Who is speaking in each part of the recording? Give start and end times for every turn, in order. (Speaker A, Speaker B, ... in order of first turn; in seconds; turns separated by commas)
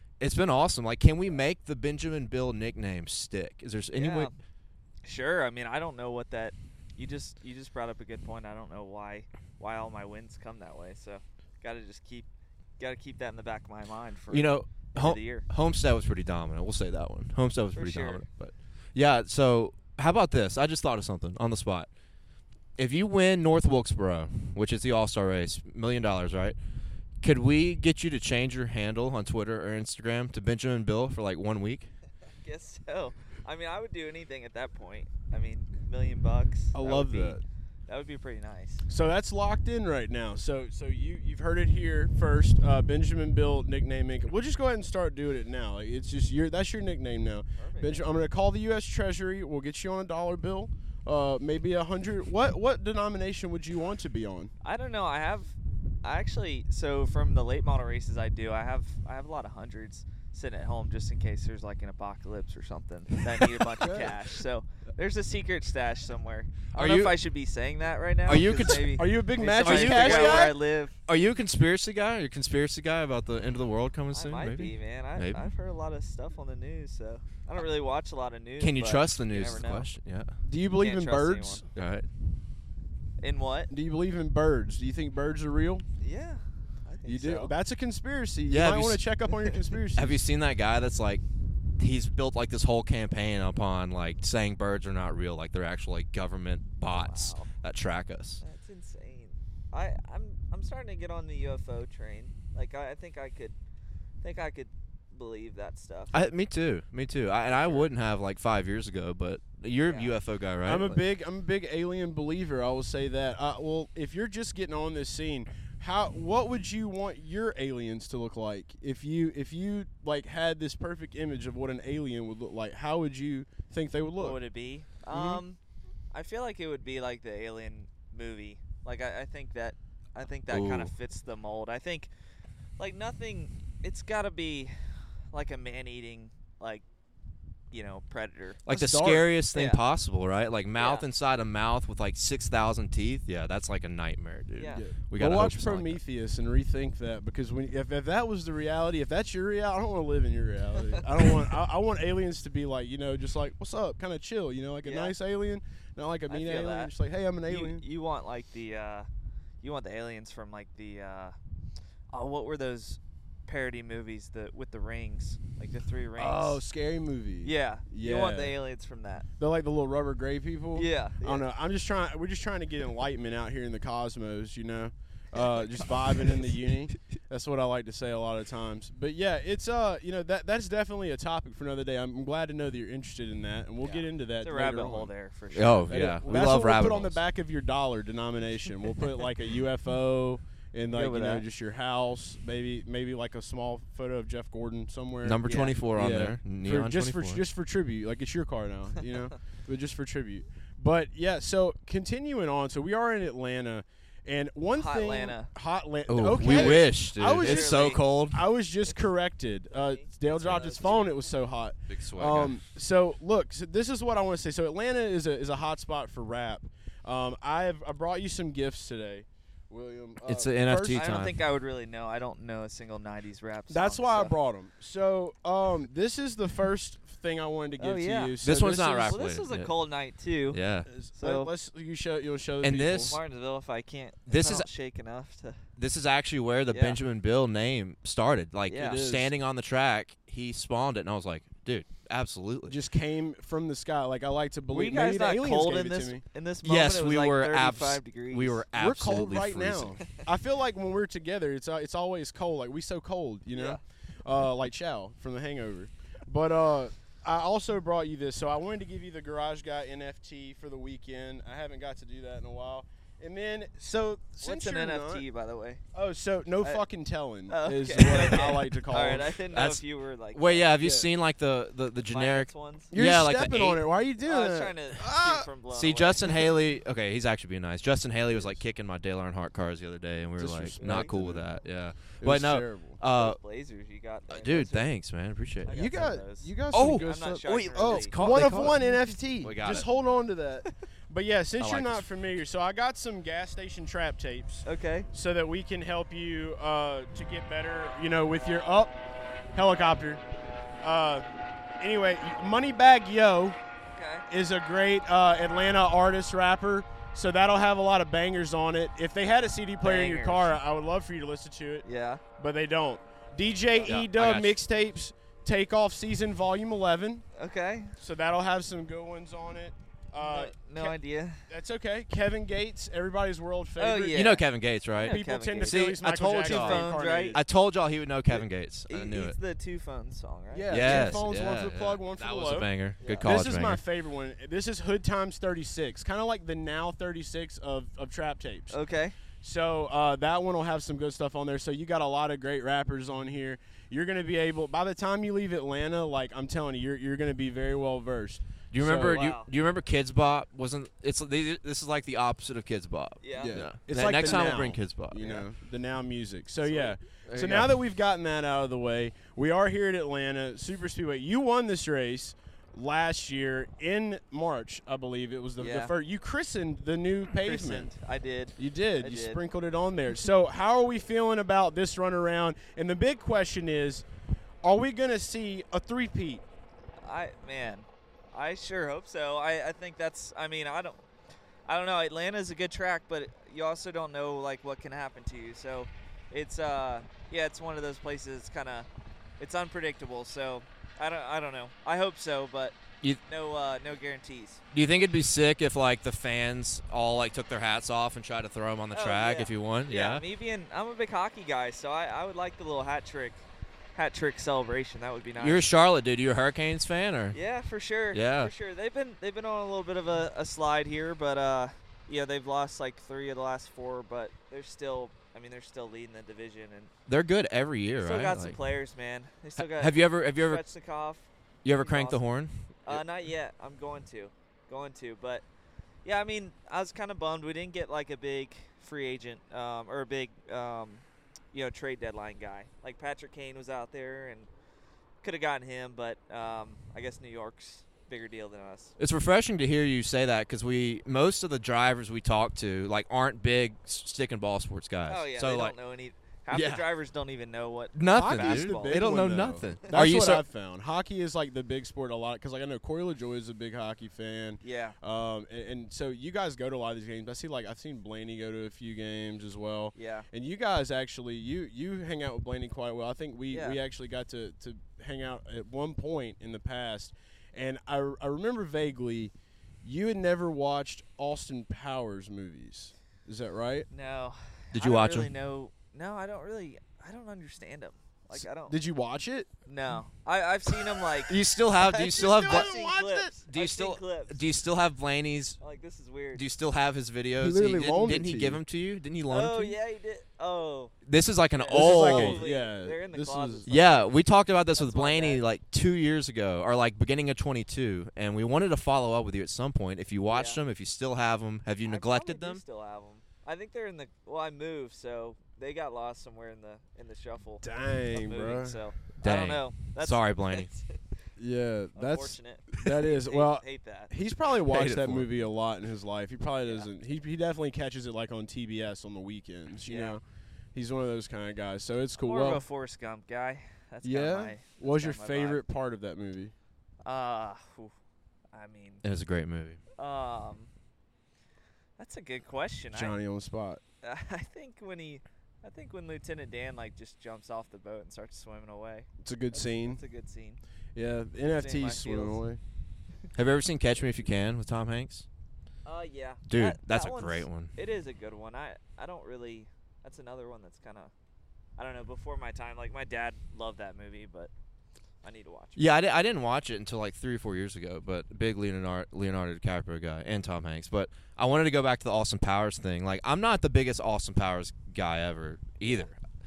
Speaker A: 0.2-4.3, Speaker B: 3.9-4.3, Speaker B: 5.0-12.3, Speaker B: 12.8-15.4, Speaker A: 14.3-21.9, Speaker B: 17.7-18.2, Speaker A: 22.8-26.6, Speaker A: 27.2-31.9, Speaker B: 32.4-38.9, Speaker C: 36.7-37.4, Speaker C: 38.9-54.5, Speaker B: 47.6-48.0, Speaker B: 54.6-70.9, Speaker C: 63.8-64.1, Speaker A: 66.7-67.1, Speaker A: 68.2-69.0, Speaker C: 68.6-70.5, Speaker A: 69.5-70.5, Speaker A: 71.1-75.5, Speaker B: 74.1-79.9, Speaker A: 78.6-80.3, Speaker C: 80.4-81.6, Speaker B: 80.8-81.7, Speaker A: 81.7-82.1, Speaker B: 83.2-83.7, Speaker C: 83.7-85.8, Speaker B: 86.0-87.5, Speaker C: 87.0-90.2, Speaker A: 88.5-89.0, Speaker A: 89.9-91.2, Speaker A: 91.8-98.4, Speaker B: 96.8-97.5, Speaker B: 98.4-103.6, Speaker B: 104.2-106.1, Speaker A: 106.1-111.0, Speaker B: 107.5-107.9, Speaker B: 109.8-110.2, Speaker C: 110.6-124.4, Speaker B: 124.2-125.6, Speaker C: 125.1-125.4, Speaker B: 126.1-132.1, Speaker A: 130.5-130.9, Speaker B: 132.8-134.7, Speaker B: 135.3-136.8, Speaker B: 137.7-138.7, Speaker A: 138.7-146.0, Speaker C: 138.7-139.3, Speaker B: 139.5-139.8, Speaker B: 140.8-141.1, Speaker B: 144.6-144.8, Speaker C: 144.7-157.8, Speaker B: 150.8-151.3, Speaker B: 154.8-155.1, Speaker B: 156.3-156.9, Speaker B: 157.4-159.1, Speaker B: 159.6-161.3, Speaker B: 162.1-166.6, Speaker C: 166.2-168.6, Speaker B: 167.4-169.2, Speaker C: 169.4-185.1, Speaker B: 170.7-171.5, Speaker B: 183.8-186.2, Speaker A: 185.5-187.2, Speaker C: 185.9-221.1, Speaker B: 190.9-191.4, Speaker A: 195.2-197.4, Speaker B: 195.4-195.8, Speaker B: 204.7-205.5, Speaker A: 206.1-208.4, Speaker B: 206.4-208.0, Speaker B: 209.7-211.2, Speaker A: 210.5-210.8, Speaker A: 211.9-212.6, Speaker A: 220.2-221.3, Speaker B: 220.9-224.3, Speaker C: 223.7-229.2, Speaker B: 227.8-228.4, Speaker A: 228.4-229.7, Speaker B: 229.1-230.6, Speaker A: 230.5-230.8, Speaker C: 230.8-233.1, Speaker B: 231.1-231.5, Speaker A: 232.6-233.2, Speaker B: 233.1-235.6, Speaker A: 234.3-234.7, Speaker A: 235.8-242.8, Speaker B: 236.7-237.0, Speaker B: 238.7-239.0, Speaker C: 238.8-239.3, Speaker C: 242.7-246.2, Speaker B: 244.7-248.7, Speaker A: 246.6-250.0, Speaker C: 248.7-265.2, Speaker B: 253.5-253.8, Speaker B: 264.4-265.8, Speaker C: 265.9-269.4, Speaker B: 267.5-270.7, Speaker A: 269.5-273.8, Speaker C: 270.8-271.1, Speaker B: 272.1-272.9, Speaker C: 272.9-275.5, Speaker B: 274.2-276.5, Speaker A: 275.7-283.4, Speaker C: 278.3-278.6, Speaker C: 280.4-281.5, Speaker B: 280.8-281.1, Speaker C: 282.2-283.0, Speaker B: 283.1-284.9, Speaker A: 284.3-285.7, Speaker B: 285.6-288.4, Speaker C: 285.7-298.9, Speaker A: 286.7-289.9, Speaker A: 291.6-292.1, Speaker B: 294.6-295.1, Speaker C: 299.5-300.2, Speaker C: 300.8-301.2, Speaker C: 301.8-303.6, Speaker B: 303.9-304.3, Speaker C: 304.3-311.8, Speaker B: 309.8-310.5, Speaker B: 311.8-312.2, Speaker C: 312.4-317.2, Speaker B: 313.7-314.0, Speaker A: 313.9-314.6, Speaker B: 317.4-318.0, Speaker C: 318.0-324.2, Speaker B: 320.1-321.4, Speaker B: 323.8-324.4, Speaker A: 324.1-329.4, Speaker B: 325.0-327.4, Speaker C: 325.0-327.4, Speaker B: 328.3-331.2, Speaker C: 330.5-332.7, Speaker A: 330.7-333.8, Speaker B: 333.0-333.3, Speaker C: 333.2-338.8, Speaker B: 338.7-339.2, Speaker C: 339.4-349.2, Speaker A: 348.7-355.4, Speaker B: 349.0-349.5, Speaker B: 353.2-353.6, Speaker C: 353.4-367.9, Speaker B: 354.2-354.6, Speaker B: 356.6-356.9, Speaker A: 357.2-357.7, Speaker B: 365.6-365.9, Speaker B: 367.3-369.4, Speaker C: 368.6-374.0, Speaker C: 374.6-376.4, Speaker B: 377.0-381.0, Speaker B: 381.7-388.9, Speaker B: 389.4-392.7, Speaker B: 393.2-394.6, Speaker A: 394.7-400.2, Speaker B: 398.9-403.4, Speaker B: 403.9-405.7, Speaker A: 405.4-407.4, Speaker B: 407.3-416.9, Speaker A: 408.1-408.5, Speaker A: 417.1-418.6, Speaker B: 418.0-422.2, Speaker A: 419.6-420.6, Speaker A: 421.6-423.0, Speaker B: 422.9-425.4, Speaker B: 426.0-434.5, Speaker B: 435.2-438.9, Speaker A: 439.0-445.8, Speaker B: 445.0-449.2, Speaker A: 446.5-446.8, Speaker A: 447.9-450.4, Speaker C: 448.1-473.9, Speaker B: 454.6-455.0, Speaker B: 459.9-460.3, Speaker B: 463.5-463.8, Speaker B: 473.9-478.8, Speaker A: 474.7-475.3, Speaker C: 478.3-479.5, Speaker B: 479.7-484.4, Speaker A: 481.3-482.7, Speaker C: 482.0-483.4, Speaker A: 483.5-485.6, Speaker B: 485.6-486.4, Speaker A: 486.3-489.8, Speaker C: 487.4-488.6, Speaker B: 489.3-490.9, Speaker A: 491.1-492.4, Speaker B: 491.5-494.1, Speaker C: 491.7-493.7, Speaker A: 493.6-502.6, Speaker B: 494.7-495.4, Speaker B: 500.3-500.6, Speaker B: 501.8-511.0, Speaker C: 507.6-508.8, Speaker A: 509.1-510.7, Speaker C: 511.4-520.2, Speaker B: 511.9-514.1, Speaker A: 514.6-515.3, Speaker B: 519.8-520.2, Speaker C: 520.7-522.6, Speaker B: 522.2-525.6, Speaker C: 524.0-526.5, Speaker B: 527.0-527.9, Speaker B: 528.5-529.0, Speaker A: 529.0-529.8, Speaker B: 530.0-530.7, Speaker B: 532.0-533.2, Speaker C: 532.9-533.8, Speaker B: 534.0-540.6, Speaker C: 539.2-540.0, Speaker C: 540.9-542.6, Speaker B: 541.5-542.4, Speaker A: 543.3-545.2, Speaker B: 545.9-551.1, Speaker A: 546.5-547.7, Speaker B: 551.8-554.5, Speaker B: 555.2-555.8, Speaker A: 555.8-566.2, Speaker B: 565.8-566.1